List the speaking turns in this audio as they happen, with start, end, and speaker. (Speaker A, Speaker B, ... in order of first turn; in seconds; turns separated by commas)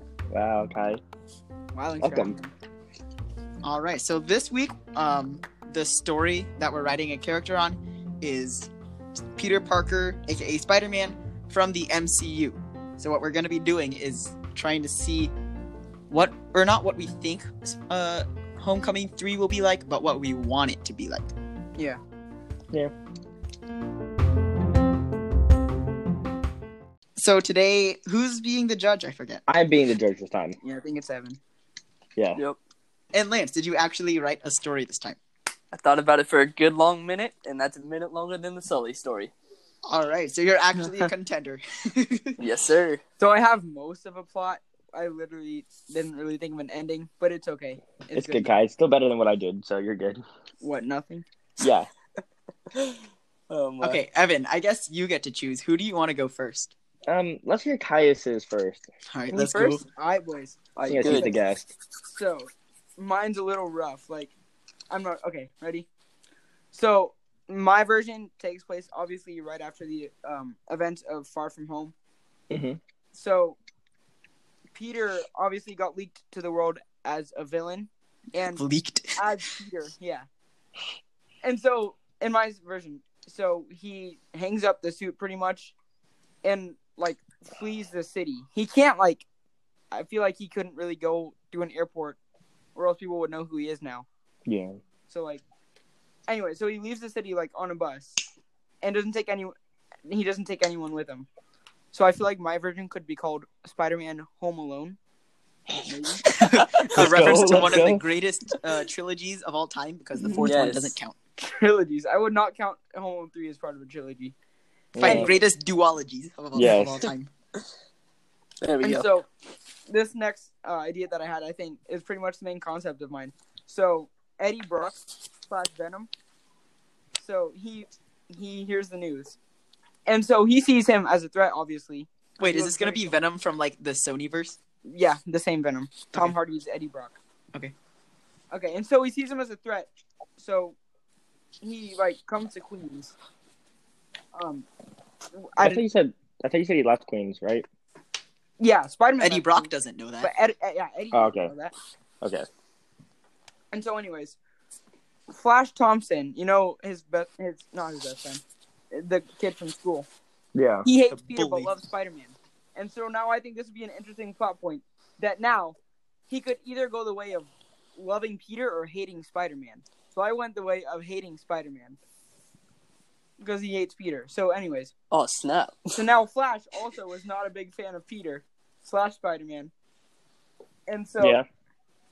Speaker A: 0.3-1.0, Speaker B: 1.7-2.5, Speaker A: 2.0-2.4, Speaker C: 3.6-8.7, Speaker C: 9.4-15.3, Speaker C: 16.1-21.3, Speaker C: 27.2-29.4, Speaker A: 29.5-30.6, Speaker B: 30.6-31.4, Speaker C: 33.1-35.2, Speaker D: 35.7-39.3, Speaker C: 39.9-42.4, Speaker D: 42.4-43.0, Speaker B: 43.2-48.5, Speaker A: 48.1-50.2, Speaker B: 50.6-51.3, Speaker A: 51.6-51.9, Speaker D: 53.5-54.0, Speaker C: 53.8-56.7, Speaker A: 57.1-58.9, Speaker C: 59.1-59.8, Speaker B: 59.3-61.4, Speaker D: 60.8-61.3, Speaker A: 60.9-61.7, Speaker B: 62.1-64.3, Speaker B: 64.9-65.9, Speaker B: 66.7-71.9, Speaker A: 72.5-72.8, Speaker B: 73.1-73.6, Speaker B: 74.7-78.6, Speaker C: 78.5-79.3, Speaker B: 79.2-80.3, Speaker B: 81.4-85.7, Speaker B: 86.4-89.3, Speaker B: 89.9-92.2, Speaker B: 92.8-94.1, Speaker A: 94.5-94.8, Speaker B: 95.1-95.4, Speaker B: 96.3-98.2, Speaker B: 98.8-99.5, Speaker B: 100.1-101.3, Speaker B: 101.9-105.0, Speaker B: 105.8-106.3, Speaker C: 106.2-111.2, Speaker A: 106.8-108.0, Speaker D: 110.4-111.0, Speaker B: 111.4-114.3, Speaker A: 114.9-115.3, Speaker C: 115.0-117.3, Speaker B: 115.0-115.4, Speaker A: 116.5-117.1, Speaker D: 118.6-119.1, Speaker B: 118.8-119.3, Speaker B: 119.9-126.1, Speaker B: 127.2-129.4, Speaker B: 130.1-133.1, Speaker C: 132.4-134.6, Speaker B: 134.9-137.2, Speaker B: 138.5-140.8, Speaker B: 141.6-143.1, Speaker B: 144.3-144.7, Speaker B: 145.4-145.8, Speaker A: 145.6-147.7, Speaker B: 148.6-149.7, Speaker C: 149.2-150.3, Speaker B: 150.2-151.7, Speaker A: 151.1-151.5, Speaker B: 153.7-154.4, Speaker B: 155.3-160.1, Speaker A: 160.6-160.9, Speaker B: 160.8-165.8, Speaker C: 161.1-161.7, Speaker B: 166.3-172.0, Speaker B: 173.4-174.9, Speaker D: 175.1-176.0, Speaker B: 176.0-179.7, Speaker B: 180.9-181.4, Speaker A: 181.2-181.4